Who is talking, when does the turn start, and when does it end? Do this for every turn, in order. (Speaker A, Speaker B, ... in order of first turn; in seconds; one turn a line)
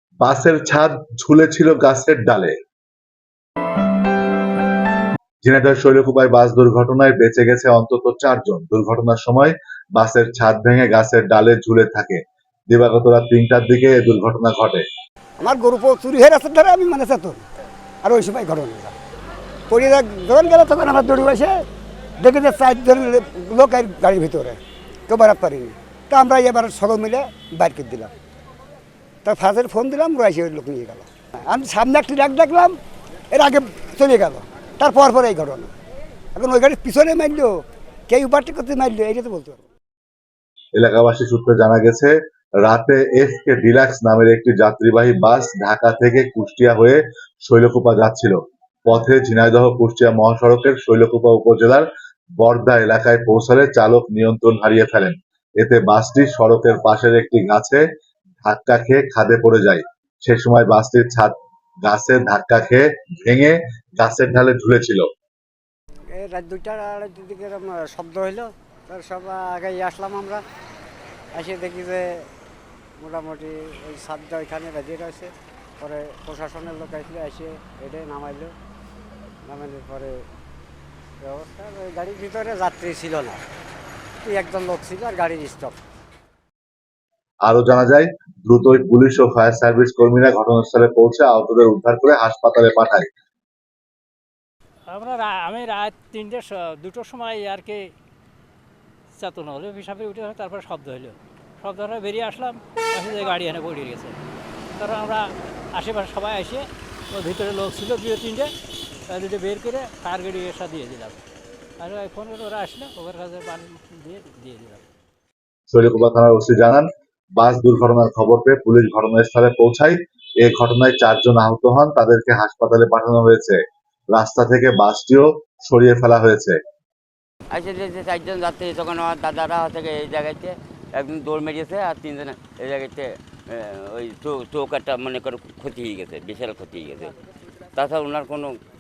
Speaker A: 0.2-2.6
Speaker A: 5.4-14.8
Speaker B: 15.4-17.4
Speaker B: 18.0-18.9
Speaker B: 19.7-21.6
Speaker B: 22.2-28.1
Speaker B: 29.2-32.8
Speaker B: 33.3-35.7
Speaker B: 36.3-39.6
Speaker A: 40.7-51.9
Speaker A: 52.4-57.8
Speaker A: 58.4-65.0
Speaker C: 66.2-70.4
Speaker C: 71.3-72.2
Speaker C: 73.0-78.5
Speaker C: 79.5-80.2
Speaker C: 81.2-83.4
Speaker C: 84.2-85.8
Speaker A: 87.5-93.1
Speaker D: 94.9-97.9
Speaker D: 99.2-104.2
Speaker D: 104.7-108.5
Speaker D: 109.1-111.2
Speaker D: 111.8-114.8
Speaker A: 115.7-126.6
Speaker E: 127.5-137.1
Speaker E: 137.7-138.6